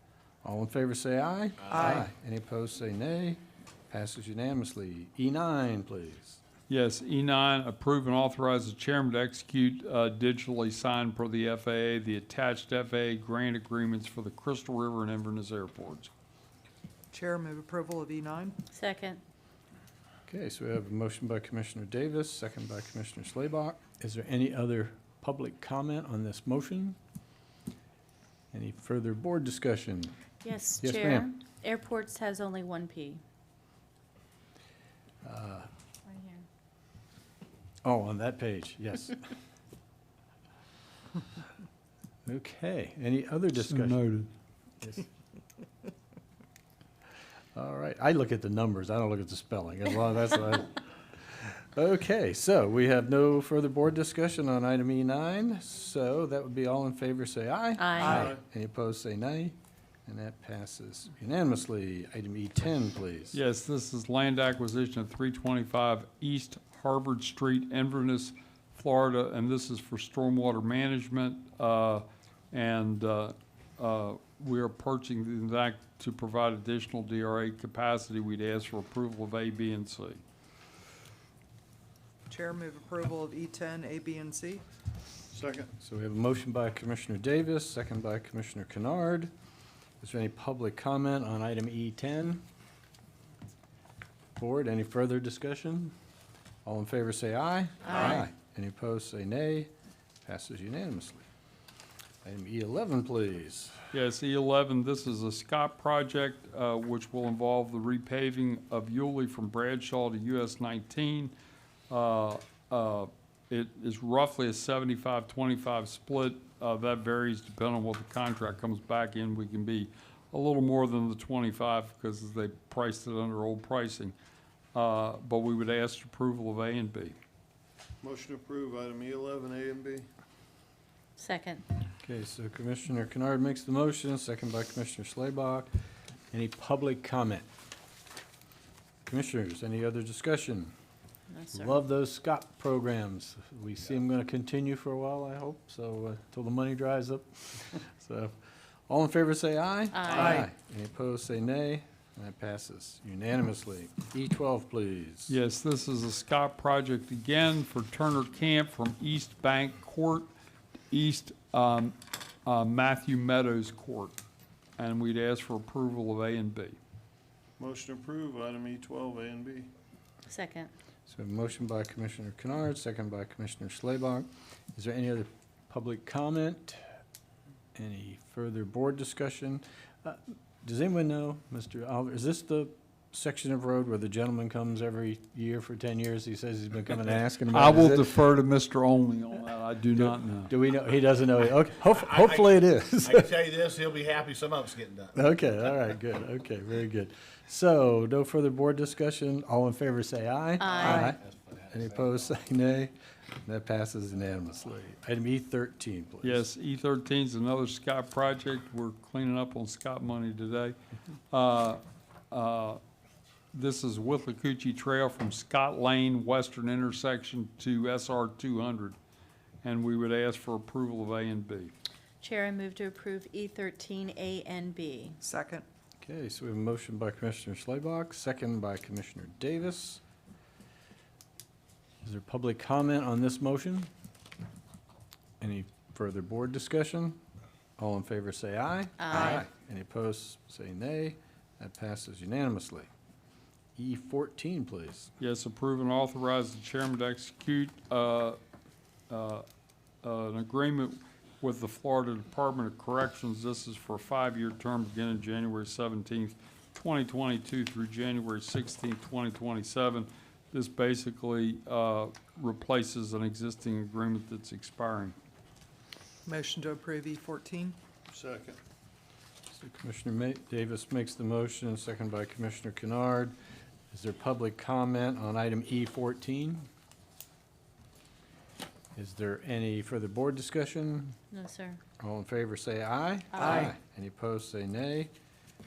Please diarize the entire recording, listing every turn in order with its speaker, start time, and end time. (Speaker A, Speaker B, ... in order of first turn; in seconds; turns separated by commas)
Speaker A: 0.4-6.4, Speaker B: 6.7-16.1, Speaker C: 17.1-18.5, Speaker D: 18.7-19.2, Speaker A: 20.3-27.0, Speaker A: 28.5-30.1, Speaker D: 30.4-33.2, Speaker A: 30.8-31.3, Speaker A: 35.2-35.7, Speaker D: 36.1-36.4, Speaker A: 37.8-39.2, Speaker A: 42.3-44.0, Speaker B: 43.5-44.3, Speaker A: 47.5-59.5, Speaker D: 57.8-58.3, Speaker E: 58.0-58.4, Speaker A: 60.1-63.4, Speaker B: 63.3-80.2, Speaker C: 82.3-84.6, Speaker E: 85.3-85.7, Speaker A: 85.8-89.3, Speaker A: 90.0-92.4, Speaker A: 94.4-95.9, Speaker A: 96.7-99.7, Speaker D: 97.9-98.2, Speaker A: 100.2-101.3, Speaker A: 102.2-103.8, Speaker B: 103.9-111.3, Speaker B: 111.9-124.1, Speaker B: 124.7-127.2, Speaker E: 128.0-130.1, Speaker D: 131.2-131.7, Speaker A: 132.0-135.7, Speaker A: 136.3-137.5, Speaker A: 139.1-140.7, Speaker D: 141.3-141.8, Speaker A: 141.5-148.3, Speaker A: 148.9-155.4, Speaker D: 149.9-150.4, Speaker B: 155.3-160.3, Speaker B: 160.9-164.2, Speaker B: 164.8-166.8, Speaker E: 167.6-169.7, Speaker D: 170.3-170.7, Speaker A: 171.1-176.8, Speaker A: 177.8-188.2, Speaker B: 187.5-190.5, Speaker A: 190.0-193.5, Speaker F: 193.0-195.1, Speaker A: 195.1-202.9, Speaker D: 200.6-201.1, Speaker C: 200.9-201.1, Speaker A: 203.4-206.4, Speaker B: 206.2-210.8, Speaker B: 211.3-212.8, Speaker B: 213.5-219.0, Speaker B: 219.6-221.7, Speaker D: 222.2-225.2, Speaker C: 225.2-225.6, Speaker A: 226.0-230.0, Speaker A: 232.0-233.9, Speaker A: 235.4-237.2, Speaker A: 237.8-242.9, Speaker D: 239.0-239.4, Speaker A: 243.8-245.1, Speaker B: 245.2-248.4, Speaker B: 249.1-249.4, Speaker B: 250.0-265.1, Speaker C: 266.3-267.8, Speaker E: 268.1-268.6, Speaker A: 269.5-273.4, Speaker A: 273.9-276.7, Speaker A: 279.0-281.2, Speaker D: 281.3-281.8, Speaker A: 282.0-285.1, Speaker D: 283.3-283.7